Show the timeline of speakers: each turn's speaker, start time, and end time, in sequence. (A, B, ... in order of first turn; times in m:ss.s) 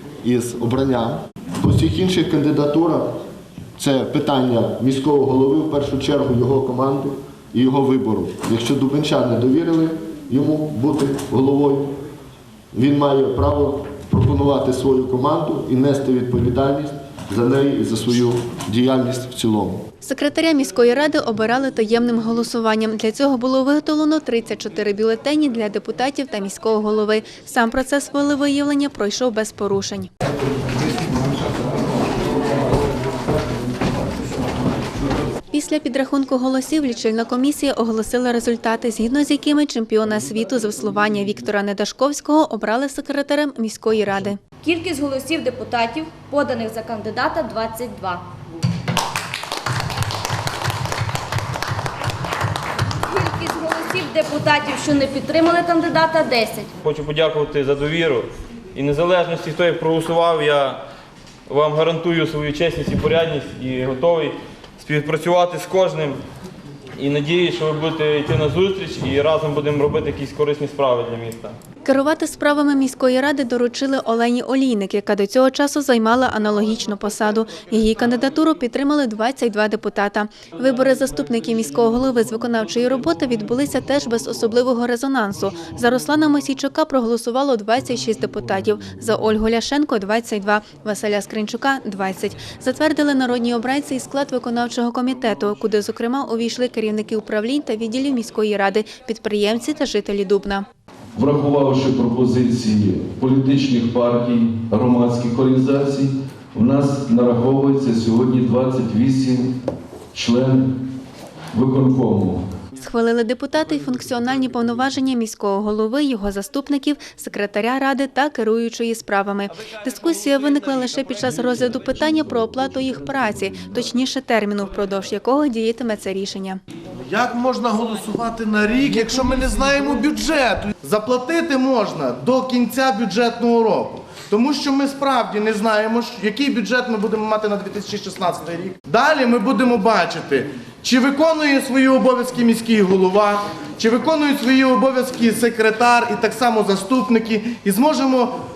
0:00.2-0:03.1 A
0:03.8-0:11.9 A
0:12.7-0:19.8 A
0:20.0-0:30.1 B
0:35.5-0:44.4 B
0:44.6-0:48.2 C
0:53.1-0:56.7 C
0:56.8-1:00.8 D
1:01.5-1:06.2 D
1:07.0-1:11.5 D
1:11.8-1:40.6 B
1:41.2-1:49.5 E
1:50.1-1:50.7 E
1:51.5-1:52.4 E
1:52.8-2:06.6 B
2:07.1-2:28.3 F